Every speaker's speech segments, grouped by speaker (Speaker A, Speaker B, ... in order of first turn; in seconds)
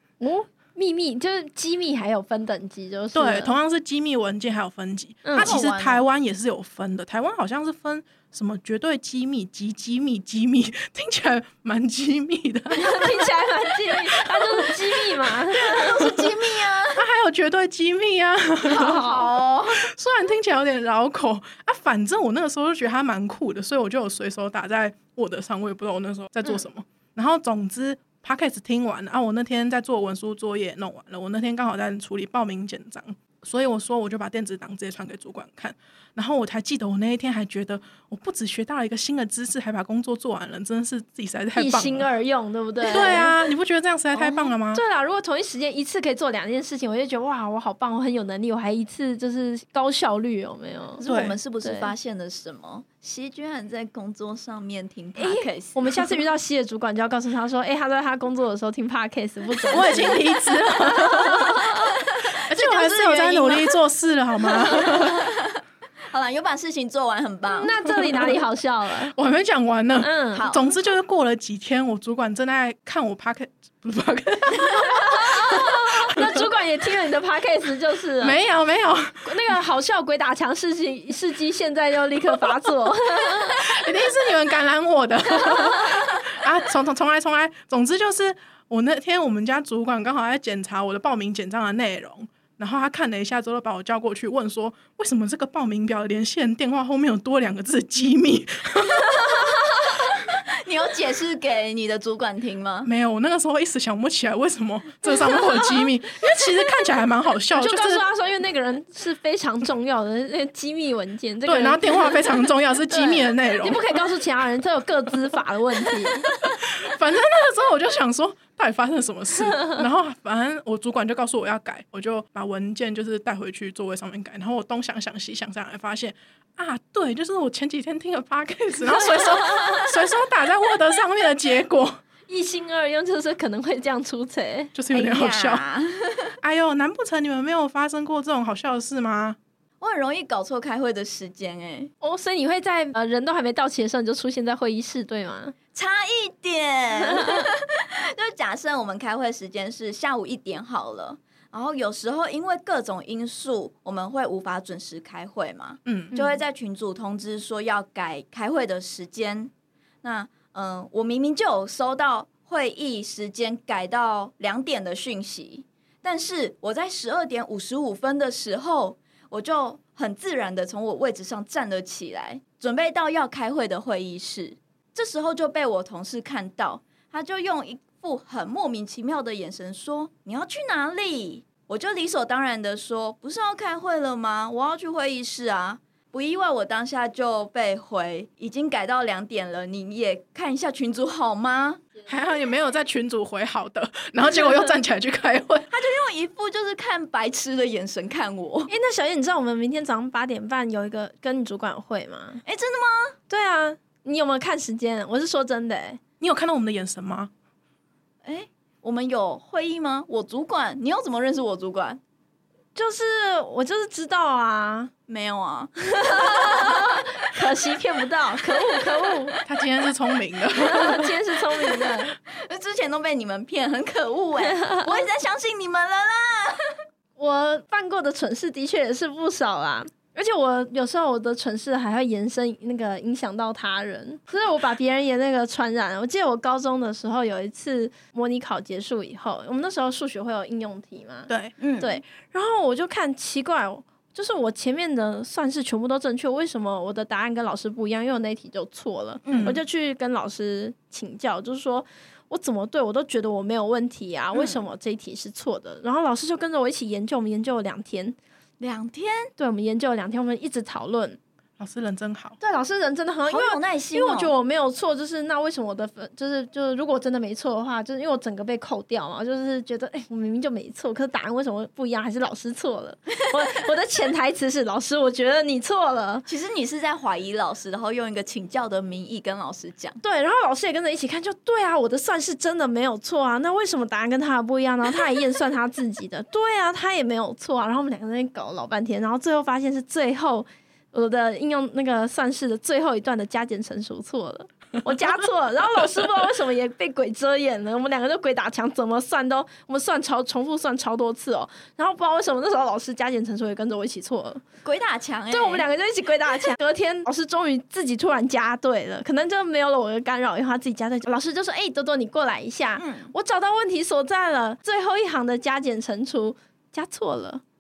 Speaker A: 0.2-3.5, 5.2-6.0, 12.7-16.1, 18.7-19.3, 41.5-43.4, 44.1-51.0, 51.6-51.9, 55.2-61.9, 67.5-69.2, 70.0-70.5, 74.8-78.4, 79.2-83.6, 107.5-116.3, 132.3-134.7, 142.0-145.6, 147.0-147.5, 156.1-156.4, 198.7-202.4, 203.3-206.0, 212.8-214.9, 215.8-219.4, 220.5-222.2, 224.5-224.9, 227.2-258.2, 259.4-261.2, 262.4-276.2, 280.0-304.4, 305.3-317.4
Speaker B: 3.1-13.3, 14.1-14.9, 16.9-19.1, 19.7-42.1, 42.8-44.8, 51.1-51.4, 59.7-61.6, 62.5-65.2, 67.9-68.4, 69.1-76.5, 78.2-79.6, 83.6-99.3, 102.8-108.0, 111.5-113.8, 116.5-132.0, 134.7-135.6, 136.4-139.4, 155.9-156.1, 192.1-195.7, 206.2-207.3, 219.5-221.1, 241.3-241.5, 249.3-249.6, 261.6-262.4
Speaker C: 5.4-6.0, 15.5-17.1, 18.8-19.9, 51.0-56.2, 61.7-63.7, 64.5-67.7, 70.3-70.7, 99.1-102.9, 134.9-136.4, 139.8-141.9, 145.7-159.5, 160.0-191.8, 195.7-198.7, 202.4-203.2, 208.2-212.0, 215.1-216.8, 222.3-226.8, 241.6-242.0, 249.2-249.6, 254.3-254.6, 258.6-259.3, 263.3-264.3, 276.3-280.0, 304.6-305.7, 312.8-313.1